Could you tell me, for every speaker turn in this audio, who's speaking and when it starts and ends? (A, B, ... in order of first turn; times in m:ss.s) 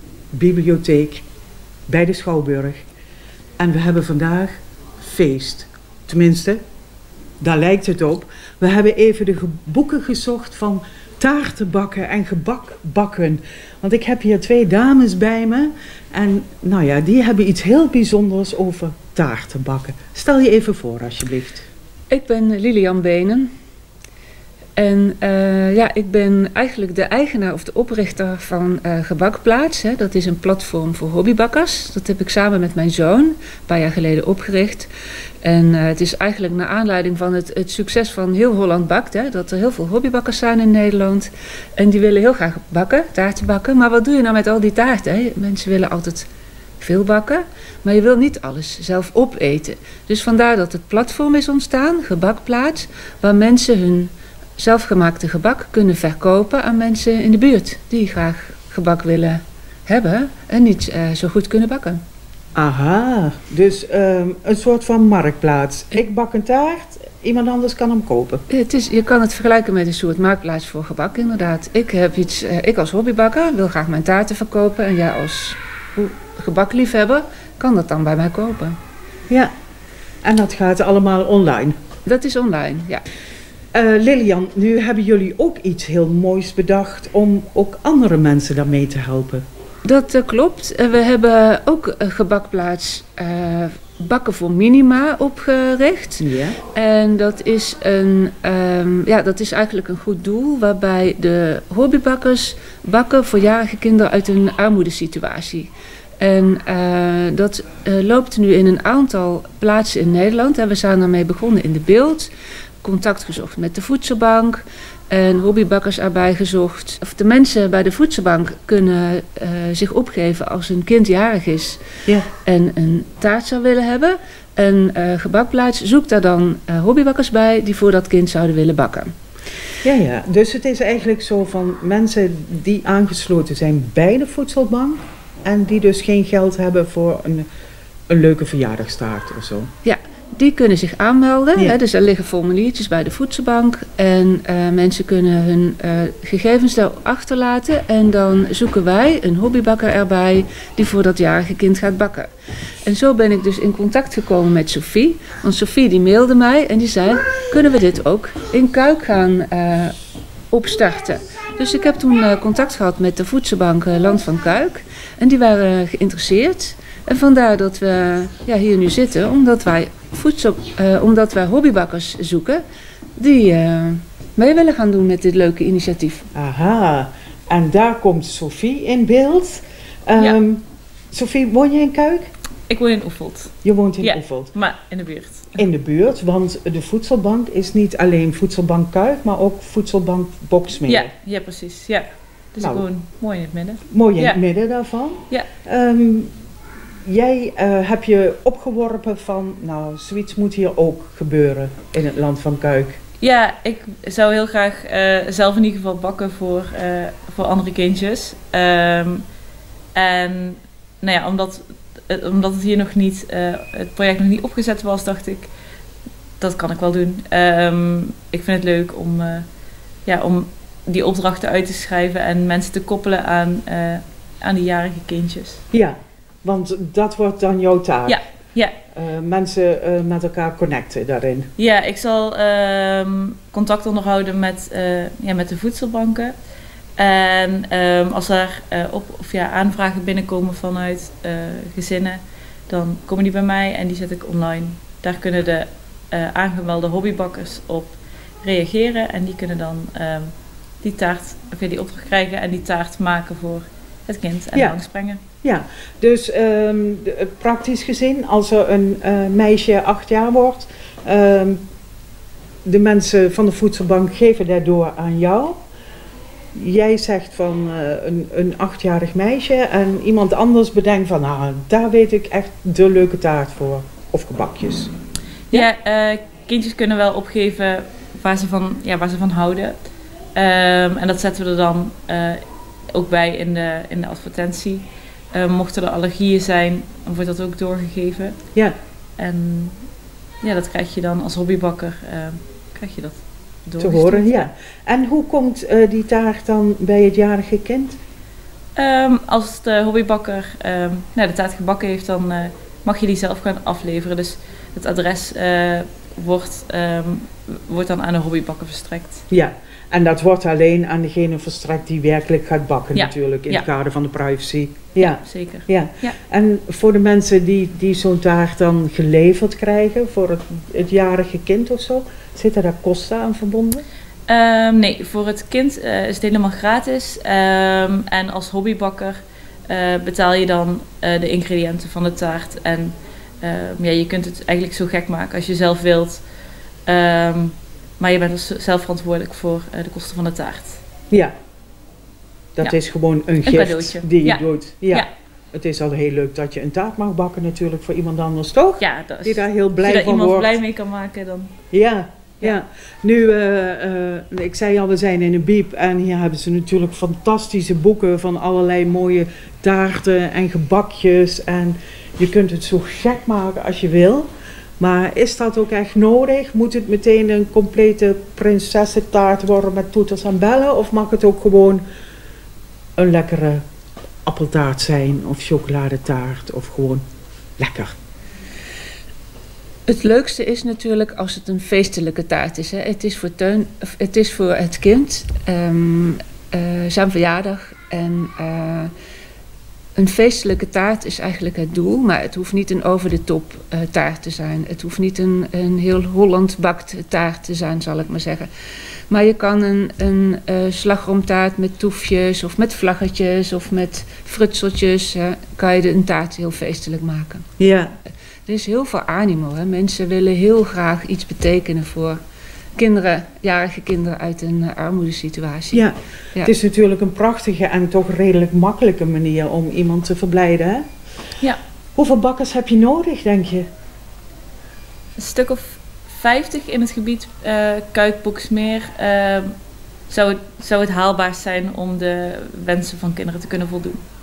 0:00.3-0:01.2 A
0:01.9-0:02.8 A
0:03.6-0:06.6 A
0:07.4-0:21.6 A
0:22.1-0:23.5 B
0:24.8-0:34.9 B
0:35.4-0:46.3 B
0:46.8-1:02.0 B
1:02.5-1:08.4 A
1:08.5-1:18.8 B
1:20.2-1:21.7 A
1:22.0-1:23.0 B
1:23.7-1:29.4 A
1:29.8-1:52.3 B
1:36.2-1:36.6 A
1:52.8-2:01.8 B
2:02.4-2:09.1 B
2:09.8-2:17.5 A
2:18.1-2:19.7 A
2:19.8-2:32.3 B
2:32.8-2:39.9 B
2:40.5-2:52.6 B
2:53.2-2:56.2 B
2:56.3-3:02.3 A
3:02.7-3:05.6 C
3:03.6-3:04.5 A
3:05.6-3:11.1 A
3:10.8-3:14.4 C
3:13.9-3:16.3 A
3:17.0-3:23.0 A
3:23.2-3:29.2 C
3:29.9-3:35.5 C
3:36.4-3:39.5 C
3:40.0-3:45.6 C
3:45.7-3:48.2 A
3:48.1-3:48.8 C
3:48.9-3:51.5 A
3:51.6-3:56.3 C
3:57.0-4:15.2 C
4:14.5-4:14.8 A
4:15.4-4:21.6 A
4:22.6-4:25.6 A
4:26.5-4:34.9 A
4:35.5-4:39.8 C
4:40.3-4:48.4 C
4:49.2-4:49.8 C
4:50.4-4:54.5 C
4:53.8-4:58.0 A
4:58.8-5:09.2 C
5:09.3-5:23.8 A
5:12.9-5:13.6 C
5:15.0-5:16.2 C
5:24.3-5:36.2 C
5:36.9-5:40.8 C
5:42.6-5:50.6 A
5:43.4-5:45.1 C
5:48.8-5:51.5 C
5:51.7-6:04.3 A
6:04.8-6:11.8 A
6:13.0-6:13.6 A
6:14.2-6:17.0 A
6:17.6-6:17.9 A
6:19.9-6:28.9 B
6:30.0-6:38.5 B
6:39.1-6:47.4 B
6:47.6-6:47.9 A
6:48.4-6:52.2 B
6:52.8-6:56.5 B
6:55.7-7:00.8 A
7:01.9-7:03.6 A
7:05.2-7:09.5 C
7:10.1-7:14.0 C